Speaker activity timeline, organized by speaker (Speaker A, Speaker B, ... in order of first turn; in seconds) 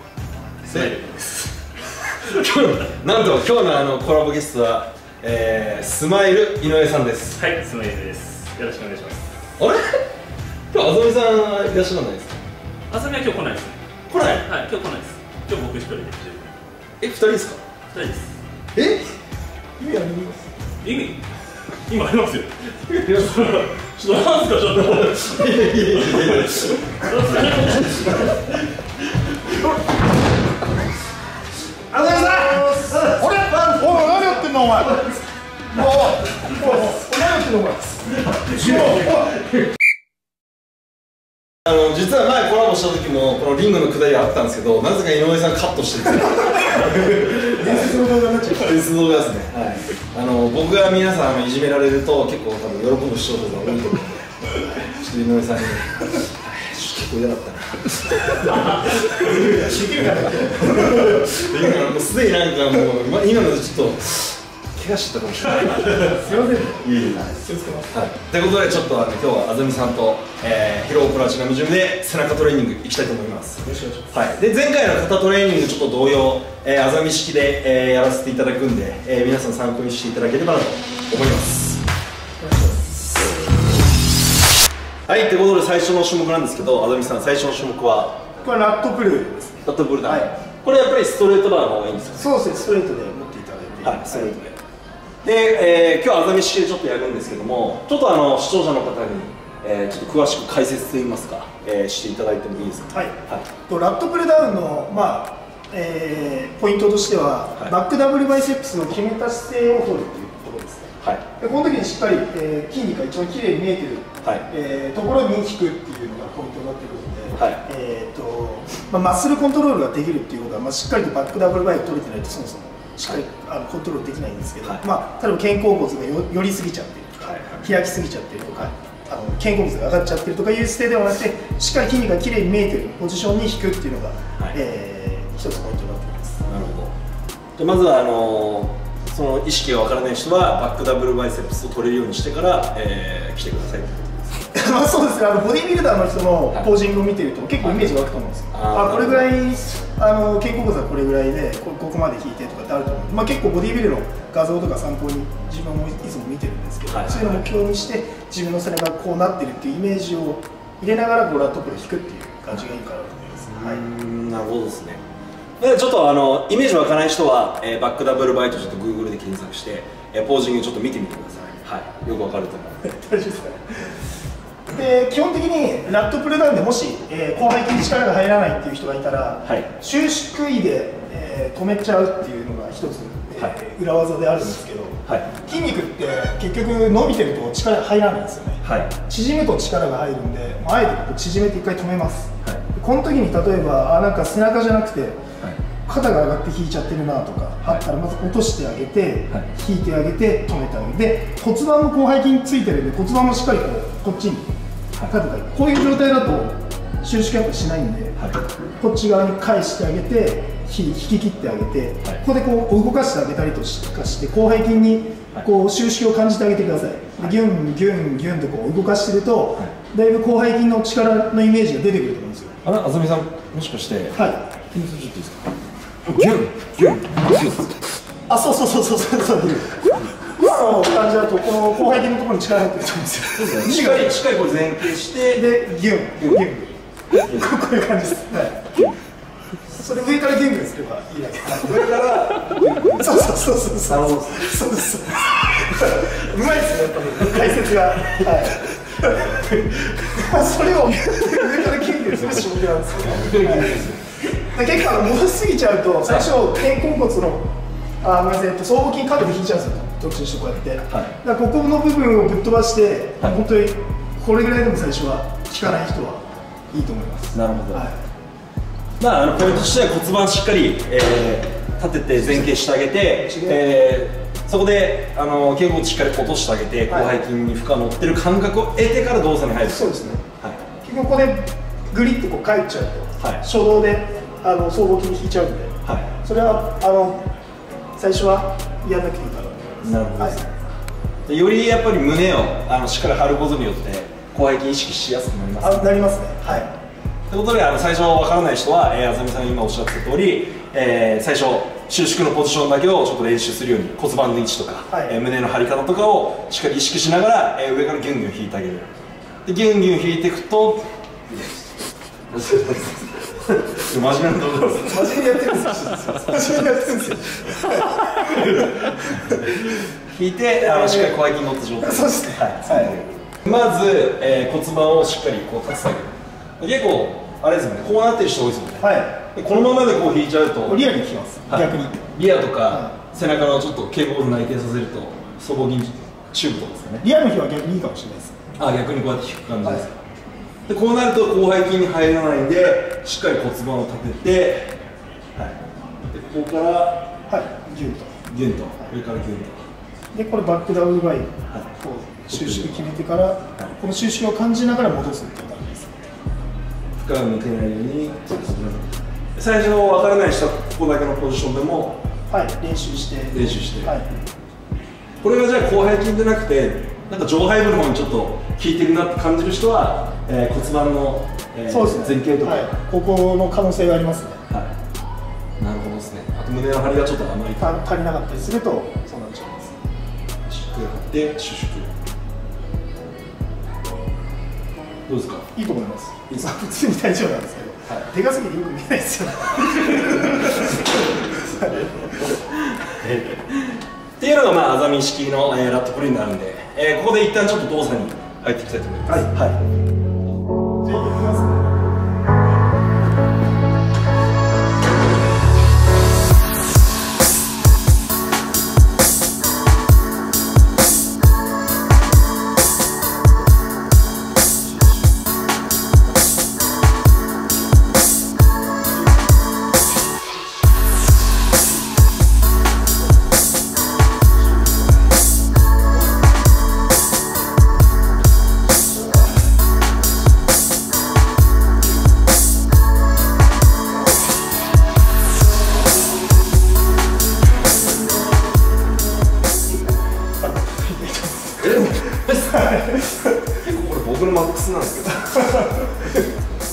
Speaker A: 0.6-1.5, 7.4-9.2, 12.9-13.8, 14.4-16.5, 17.9-18.3, 20.8-21.2, 21.9-28.4
Speaker B: 2.2-7.4, 9.6-10.0, 10.7-12.3, 14.1-14.5, 17.0-17.6, 18.7-19.1, 19.8-20.4, 24.8-27.0, 31.9-34.2, 38.5-38.8, 41.6-47.9, 48.5-67.3, 67.9-81.8, 85.1-88.2, 89.6-92.4, 93.8-94.6, 95.2-103.5, 117.3-117.6, 127.2-127.7, 136.4-136.9, 137.6-144.3, 147.6-149.3, 156.9-157.3, 163.5-165.0, 165.6-172.8, 188.6-188.9, 222.6-224.2, 224.7-225.4, 226.1-227.8, 233.3-235.4, 237.2-237.5, 241.4-244.6, 249.3-249.8, 252.9-254.2, 260.9-261.1, 267.3-267.8, 269.0-280.6, 289.8-290.6, 291.3-296.1, 297.3-308.9, 309.4-311.7, 312.3-315.2, 320.1-330.8, 331.5-337.1, 338.6-340.0, 340.7-344.8, 345.4-347.1, 348.3-349.6, 352.3-352.9, 357.0-362.0, 363.3-363.9, 365.2-372.7, 375.6-377.7, 380.4-381.9, 385.1-385.5, 390.0-390.4, 391.3-399.6, 441.6-442.6, 443.6-446.0
Speaker C: 19.9-20.3, 31.9-35.1, 35.7-39.4, 46.7-48.8, 59.0-61.4, 65.8-67.9, 73.7-74.1, 82.4-82.9, 88.4-90.3, 92.2-94.4, 102.9-136.4, 144.5-163.8, 172.8-174.0, 174.7-195.2, 195.8-204.5, 205.1-208.2, 208.8-222.6, 224.1-224.7, 228.3-234.2, 235.2-238.7, 239.7-242.0, 243.0-253.8, 254.3-257.5, 258.0-268.0, 273.2-273.6, 276.9-277.2, 279.7-280.2, 280.8-287.2, 288.0-290.4, 295.6-296.7, 304.9-305.2, 314.8-319.4, 320.6-321.2, 321.8-323.0, 328.8-329.2, 330.7-332.1, 337.0-338.4, 347.3-348.2, 350.1-356.0, 362.3-364.1, 371.7-374.4, 377.6-379.8, 385.5-392.1, 400.8-401.8, 440.4-443.4, 445.4-446.0